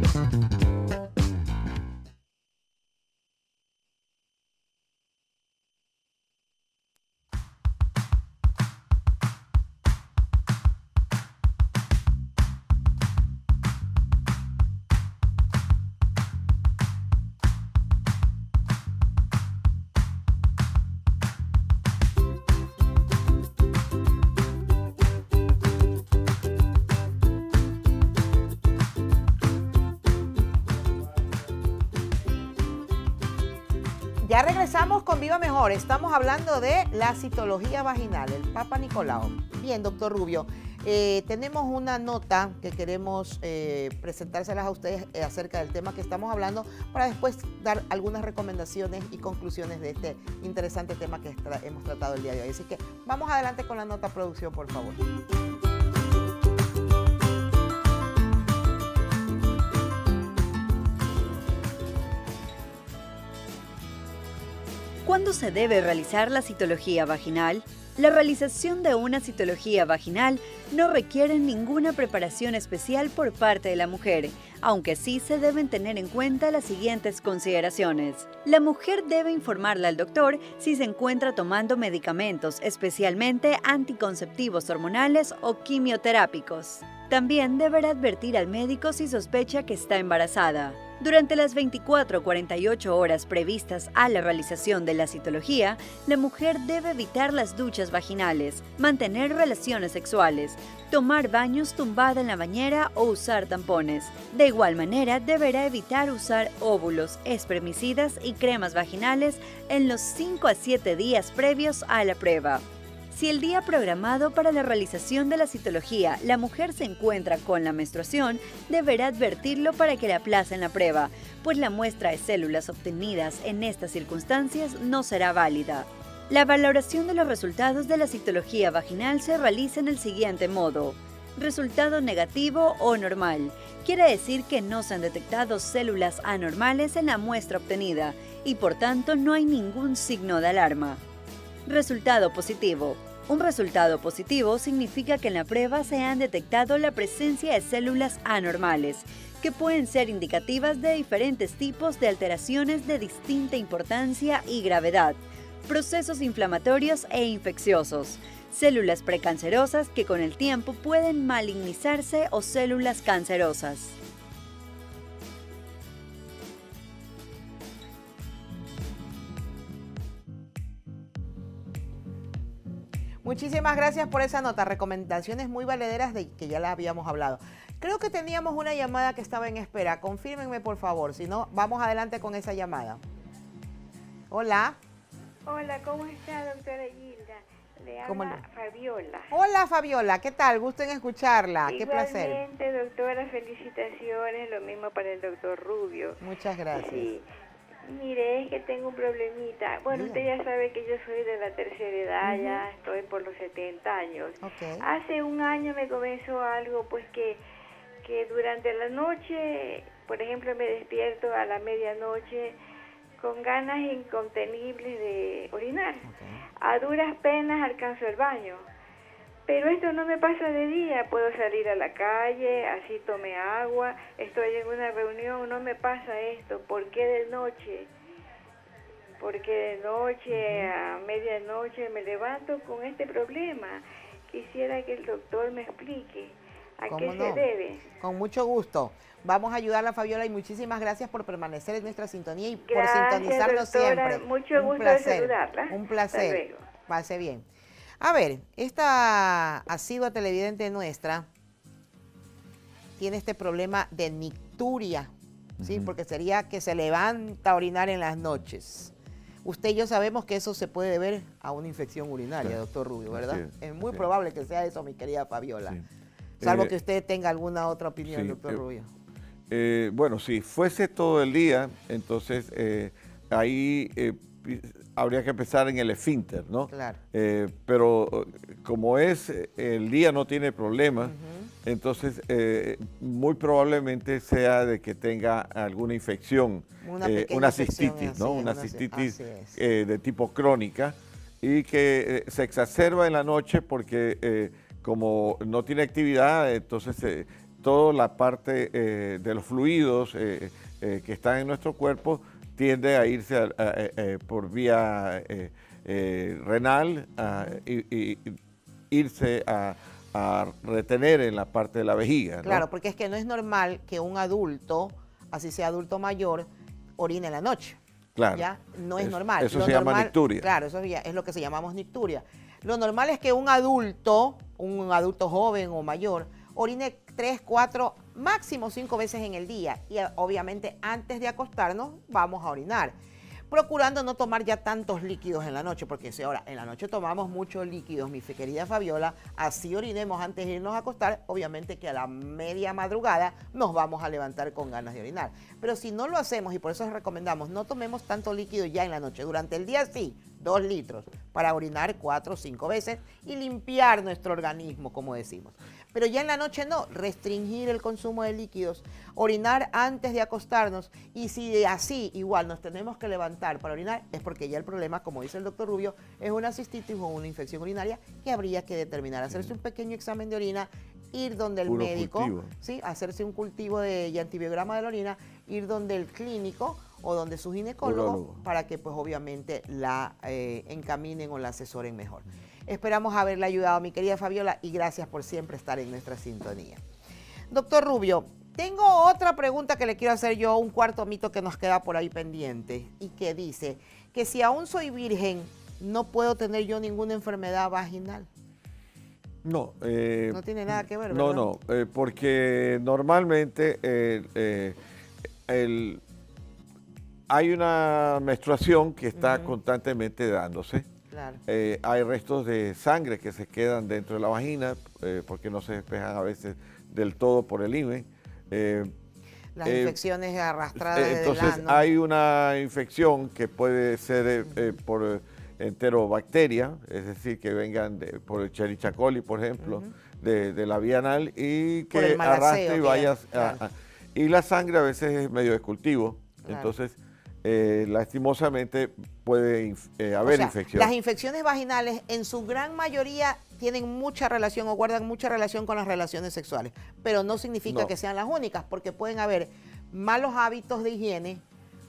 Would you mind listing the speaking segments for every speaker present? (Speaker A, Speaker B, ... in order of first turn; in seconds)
Speaker A: 34.2-55.0, 173.2-183.0, 184.3-184.8, 188.0-188.4, 189.3-192.4, 196.2-197.1, 199.9-200.2, 202.2-202.6, 204.4-204.8, 216.0-216.4, 230.3-230.7, 236.9-237.4, 238.0-247.4, 248.0-251.3, 253.0-255.1, 255.6-258.9, 259.4-265.8, 266.4-268.9, 276.7-277.0, 281.0-281.5, 286.8-289.6, 312.4-317.8, 318.3-332.9, 333.5-386.8, 387.5-398.3, 400.3-401.5, 409.1-409.5, 411.1-411.4, 419.6-421.9, 429.6-429.9, 431.9-433.6, 436.4-436.7, 440.2-451.4
Speaker B: 65.0-141.0, 141.7-163.9
Speaker C: 185.5-189.3, 191.7-196.2, 196.7-197.2, 197.8-207.4, 208.0-212.6, 213.2-216.1, 216.6-218.7, 219.5-227.9, 229.2-237.8, 242.7-246.7
Speaker D: 255.6-255.9, 263.1-264.1, 266.4-266.7, 268.0-268.6, 269.5-308.4, 308.9-312.6, 318.1-318.4, 319.0-320.5, 371.6-372.5, 377.8-378.4, 399.4-404.8, 405.5-406.0, 407.3-410.8, 411.5-418.9, 419.6-420.0, 420.8-440.9